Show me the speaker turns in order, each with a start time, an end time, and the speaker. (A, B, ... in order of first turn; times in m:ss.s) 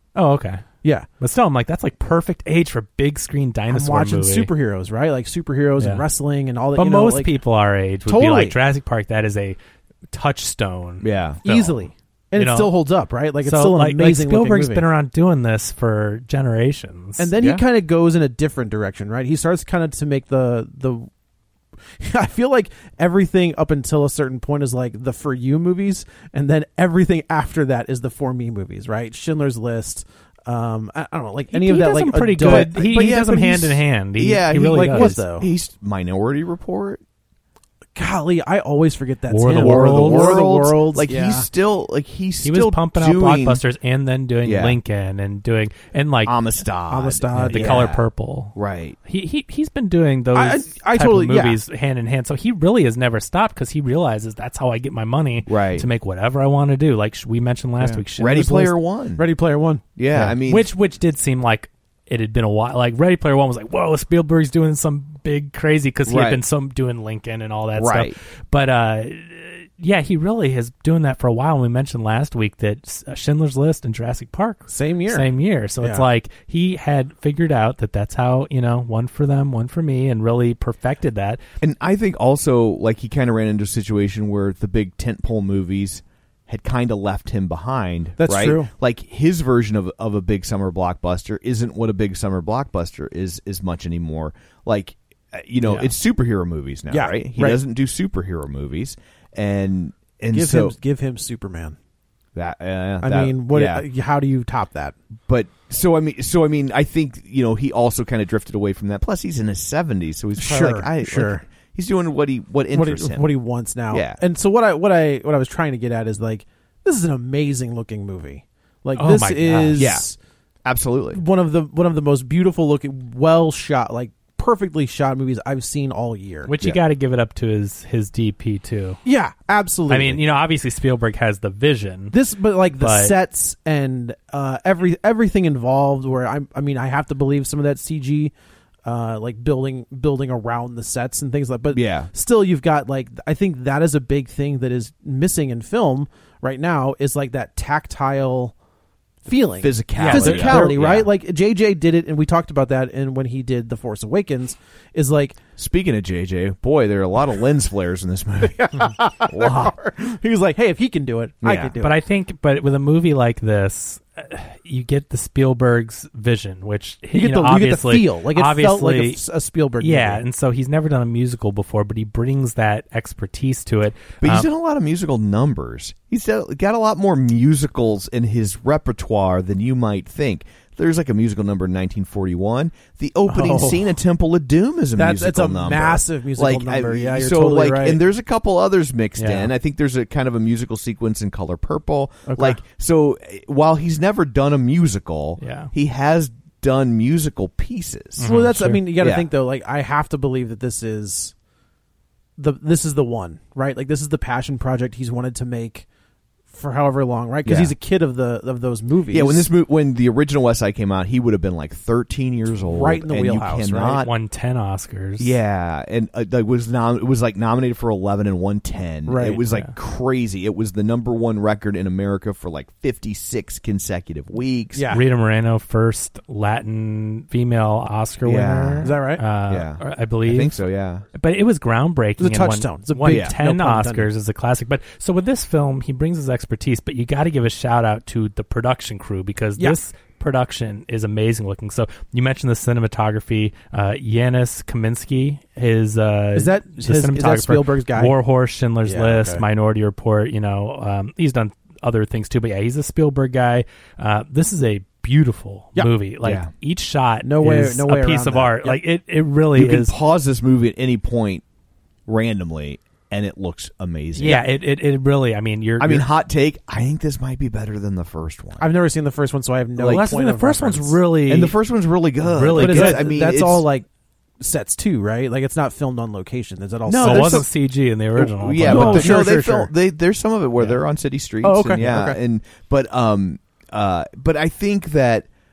0:00.2-0:00.6 A
0:01.2-0:04.5 A
0:03.7-0:07.3 B
0:05.8-0:06.1 A
0:06.8-0:09.6 A
0:08.1-0:08.6 B
0:10.1-0:11.8 A
0:11.0-0:11.4 C
0:11.4-0:14.8 B
0:12.4-0:12.7 A
0:13.4-0:17.3 A
0:17.2-0:21.1 B
0:17.4-0:17.6 C
0:22.0-0:32.9 B
0:31.5-0:35.2 A
0:32.4-0:37.0 C
0:34.7-0:35.5 B
0:38.0-0:41.5 B
0:39.3-0:40.4 A
0:39.6-0:43.6 C
0:42.4-0:46.4 A
0:44.4-0:44.8 C
0:46.2-0:49.0 C
0:46.9-0:47.8 B
0:47.4-0:58.8 A
0:50.4-0:51.6 B
0:55.4-0:55.9 C
0:57.8-0:59.2 C
0:59.2-0:59.8 B
1:00.0-1:00.7 C
1:00.1-1:21.4 A
1:06.1-1:06.4 C
1:07.8-1:08.2 C
1:14.7-1:15.3 B
1:15.8-1:16.0 B
1:21.6-1:40.8 C
1:28.2-1:28.7 B
1:36.9-1:37.6 B
1:40.3-1:41.8 B
1:42.4-1:43.9 C
1:43.0-1:45.0 B
1:45.3-1:53.3 C
1:50.4-1:51.4 B
1:52.7-2:00.2 B
1:53.9-1:54.2 C
1:59.0-1:59.9 A
1:59.8-2:00.1 C
2:00.6-2:01.2 C
2:01.1-2:06.5 B
2:06.5-2:09.0 A
2:09.0-2:10.2 B
2:09.9-2:12.2 A
2:12.1-2:18.3 B
2:12.8-2:13.2 A
2:18.8-2:28.5 B
2:21.7-2:22.1 C
2:29.2-2:35.4 B
2:29.6-2:31.1 C
2:30.0-2:31.0 A
2:35.6-2:39.8 C
2:38.5-2:42.0 B
2:41.4-2:41.7 C
2:41.8-2:49.2 A
2:47.1-2:50.2 B
2:49.8-2:54.5 A
2:54.2-3:18.3 C
3:03.3-3:03.8 B
3:05.0-3:08.0 B
3:09.2-3:09.5 A
3:12.3-3:12.6 B
3:15.4-3:15.7 A
3:18.2-3:18.9 A
3:18.2-3:21.3 B
3:19.0-3:19.3 C
3:22.4-3:25.9 B
3:26.5-3:29.5 B
3:27.4-3:27.7 C
3:29.1-3:34.1 C
3:32.7-3:34.0 B
3:34.0-3:35.3 A
3:35.2-3:44.9 C
3:39.1-3:39.4 B
3:44.7-3:45.0 B
3:44.9-3:50.6 A
3:48.2-3:48.9 C
3:48.8-3:49.2 B
3:49.5-3:51.1 C
3:51.1-4:20.0 A
3:52.2-3:54.1 B
3:53.1-3:53.3 C
4:06.4-4:08.2 B
4:08.9-4:09.4 B
4:16.2-4:16.5 C
4:17.2-4:18.8 B
4:19.5-4:21.4 C
4:22.1-4:24.4 C
4:24.2-4:26.1 A
4:25.8-4:28.7 C
4:28.6-4:31.0 B
4:29.8-4:30.0 C
4:29.8-4:31.6 A
4:31.3-4:33.7 C
4:32.2-4:33.0 A
4:32.6-4:33.9 B
4:34.4-4:37.4 B
4:36.9-4:37.5 C
4:37.0-4:39.5 A
4:38.2-4:45.3 C
4:38.6-4:39.7 B
4:41.4-4:42.2 B